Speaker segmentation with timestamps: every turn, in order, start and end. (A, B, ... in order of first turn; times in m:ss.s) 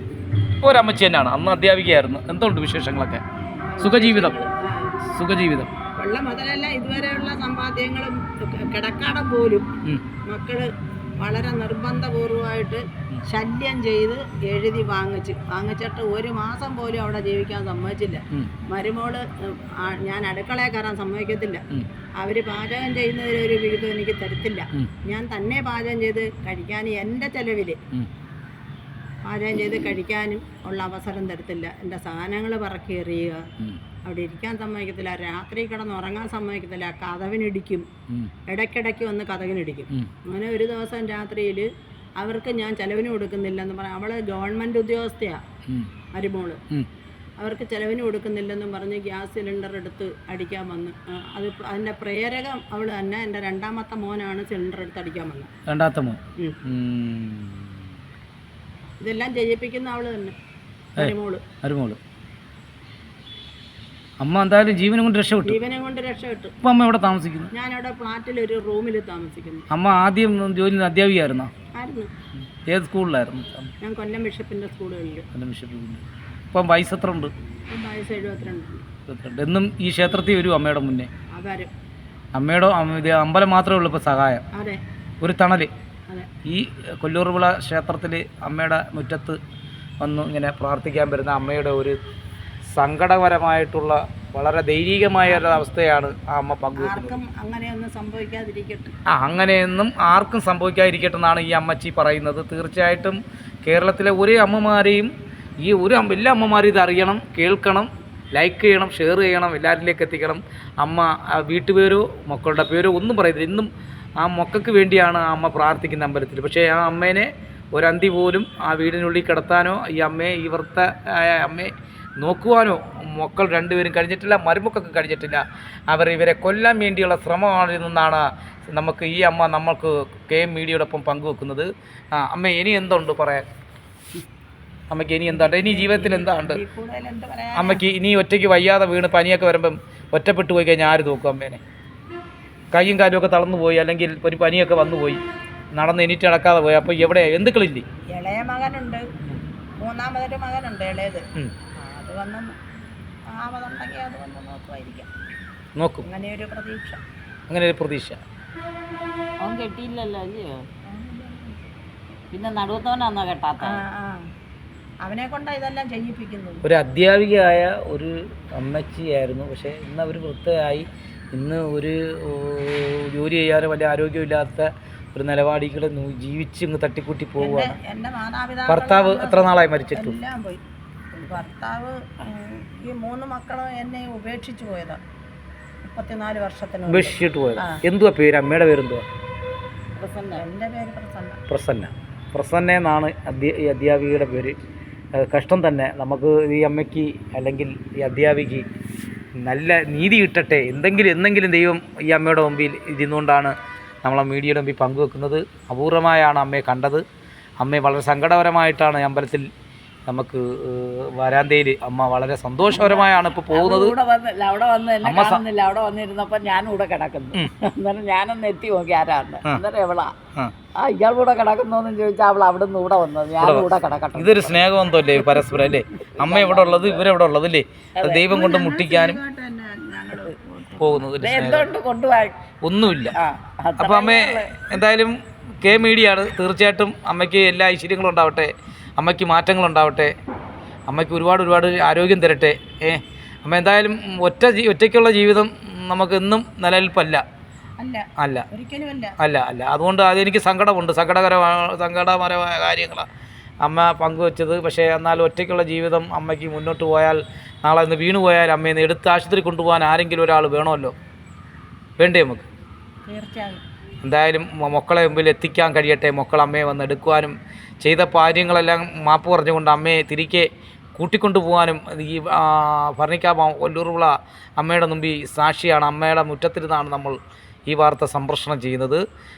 0:00.6-0:03.2 A
0:03.7-0:05.0 B
0:03.8-0:04.4 A
0:05.1-0:05.7 A
0:05.9-0:09.7 B
0:10.2-0:10.7 B
0:11.2-0:21.6 B
0:22.2-0:27.8 B
0:29.2-0:33.5 B
0:34.0-0:37.9 B
0:38.5-0:41.7 B
0:42.2-0:45.4 B
0:45.7-0:45.9 A
0:46.1-0:46.6 B
0:47.4-0:55.5 B
0:55.7-0:57.9 A
0:59.0-1:00.4 B
1:01.0-1:01.4 B
1:01.0-1:02.0 A
1:04.2-1:05.6 A
1:05.4-1:06.6 B
1:06.6-1:07.5 A
1:07.5-1:09.7 B
1:09.7-1:11.5 A
1:11.7-1:12.1 B
1:12.6-1:13.7 A
1:13.8-1:15.2 B
1:15.3-1:17.3 A
1:17.7-1:18.8 B
1:19.1-1:21.1 A
1:21.3-1:21.7 B
1:22.3-1:24.4 A
1:24.5-1:24.8 B
1:25.2-1:25.7 A
1:26.4-1:29.4 A
1:30.0-1:32.0 A
1:32.7-1:37.2 A
1:36.8-1:38.9 B
1:39.1-1:53.7 A
1:54.2-2:13.4 A
2:14.9-2:16.6 A
2:15.3-2:17.8 B
2:17.5-2:21.6 A
2:22.7-2:25.2 A
2:25.7-2:27.8 A
2:28.1-2:29.1 B
2:29.8-2:32.6 B
2:33.3-2:35.1 B
2:35.8-2:36.0 A
2:36.0-2:37.0 B
2:37.5-2:38.2 A
2:39.4-2:40.7 C
2:40.9-2:41.6 B
2:42.3-2:43.8 C
2:43.6-2:44.3 B
2:45.0-2:46.6 B
2:46.6-2:57.7 A
2:57.4-3:00.6 B
2:58.7-3:00.2 A
3:01.1-3:05.0 B
3:05.8-3:07.8 B
3:06.9-3:09.0 A
3:10.0-3:10.3 C
3:10.3-3:11.4 B
3:11.5-3:14.6 A
3:15.2-3:18.6 A
3:19.4-3:27.0 A
3:27.6-3:29.5 A
3:30.1-3:34.0 A
3:32.7-3:40.2 C
3:35.0-3:35.4 A
3:40.8-3:44.6 C
3:43.4-3:49.2 A
3:45.2-3:47.1 C
3:48.0-3:48.3 C
3:48.2-3:51.1 B
3:50.8-3:51.7 A
3:51.2-3:52.4 C
3:52.6-3:53.2 A
3:53.1-3:54.7 C
3:53.8-4:00.1 A
4:00.9-4:07.2 A
4:07.8-4:09.2 B
4:08.2-4:08.5 A
4:09.2-4:13.0 A
4:13.6-4:20.9 A
4:22.0-4:22.4 A
4:23.1-4:23.6 B
4:24.0-4:39.0 A